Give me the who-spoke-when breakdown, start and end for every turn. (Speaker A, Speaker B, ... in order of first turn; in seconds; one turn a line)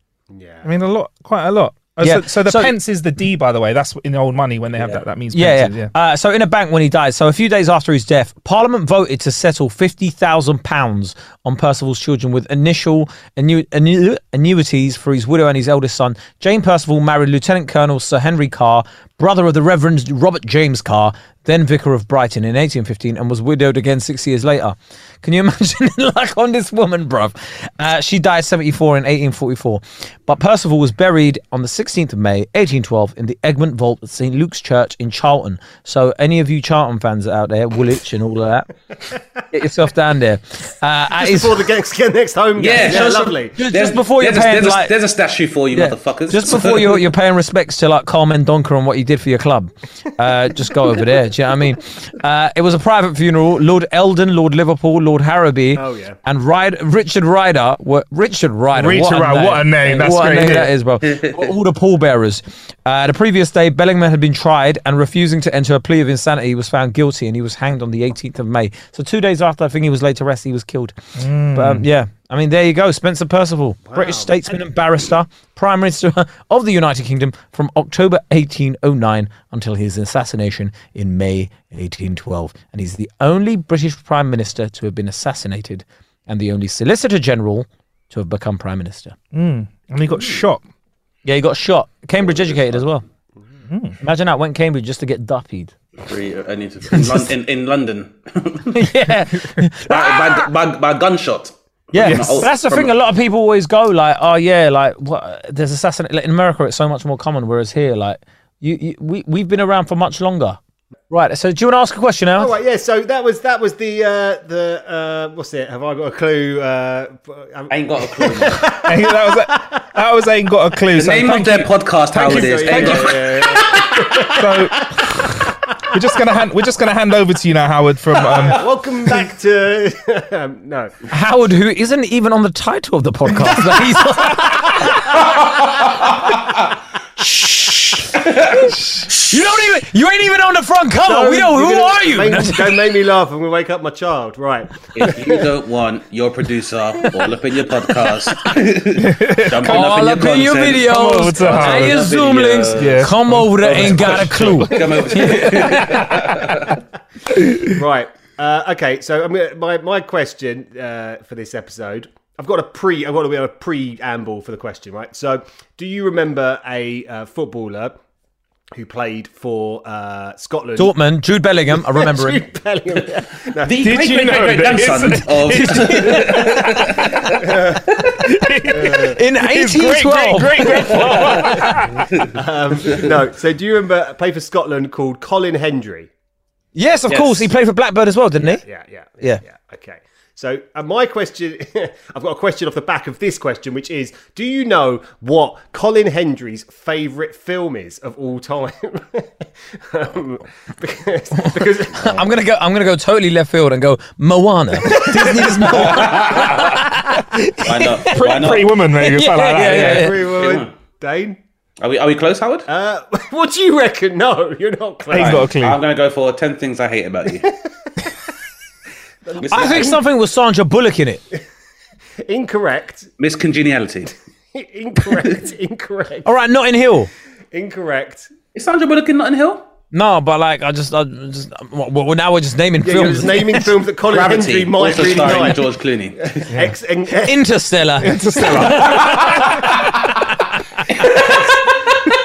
Speaker A: 0.3-0.7
Speaker B: 0.6-5.9
Speaker C: 2.0-2.8
Speaker C: 5.3-38.7
Speaker C: 39.5-41.6
Speaker A: 41.1-43.6
Speaker D: 42.6-47.0
Speaker C: 42.8-44.9
Speaker C: 45.7-71.0
Speaker A: 55.8-56.2
Speaker B: 58.7-60.7
Speaker D: 61.1-61.5
Speaker B: 71.2-71.9
Speaker C: 71.5-89.2
Speaker A: 73.9-74.6
Speaker B: 89.3-90.6
Speaker C: 91.2-93.0
Speaker B: 93.7-94.0
Speaker C: 94.0-95.7
Speaker D: 96.0-98.9
Speaker C: 96.9-97.2
Speaker C: 98.7-100.5
Speaker D: 99.9-102.9
Speaker C: 101.9-110.6
Speaker B: 102.0-102.5
Speaker C: 111.1-112.5
Speaker A: 112.4-119.7
Speaker D: 117.7-118.7
Speaker B: 118.8-123.2
Speaker D: 121.0-124.5
Speaker A: 122.2-124.8
Speaker B: 124.3-128.7
Speaker A: 128.4-130.9
Speaker C: 131.1-135.2
Speaker D: 135.4-136.4
Speaker D: 137.4-139.4
Speaker C: 139.1-143.0
Speaker A: 141.0-145.4
Speaker D: 144.9-156.8
Speaker B: 148.9-150.0
Speaker C: 149.6-155.9
Speaker B: 150.8-152.1
Speaker B: 152.8-156.3
Speaker B: 157.4-157.6
Speaker A: 157.6-168.0
Speaker A: 168.7-171.0
Speaker C: 170.8-172.4
Speaker A: 171.7-174.4
Speaker D: 173.6-177.4
Speaker B: 173.8-182.1
Speaker C: 175.5-176.4
Speaker A: 177.5-177.8
Speaker A: 178.7-179.2
Speaker C: 179.1-181.1
Speaker A: 182.3-186.1
Speaker C: 186.8-188.6
Speaker D: 187.1-187.5
Speaker A: 188.5-202.3
Speaker C: 201.9-207.7
Speaker D: 205.8-206.8
Speaker D: 207.6-208.9
Speaker B: 207.7-210.1
Speaker C: 208.9-210.1
Speaker D: 209.6-210.7
Speaker A: 209.6-211.4
Speaker D: 211.8-212.7
Speaker A: 212.7-215.5
Speaker B: 215.1-215.8
Speaker D: 215.1-217.5
Speaker A: 219.2-220.0
Speaker D: 219.4-220.0
Speaker C: 219.5-221.2
Speaker A: 222.2-223.1
Speaker D: 223.2-224.1
Speaker A: 224.5-226.3
Speaker C: 226.2-227.1
Speaker A: 227.5-228.3
Speaker D: 228.5-229.7
Speaker C: 229.9-233.7
Speaker A: 232.8-237.4
Speaker D: 234.1-236.5
Speaker C: 237.2-240.1
Speaker B: 238.0-239.5
Speaker D: 238.9-239.6
Speaker C: 241.0-241.6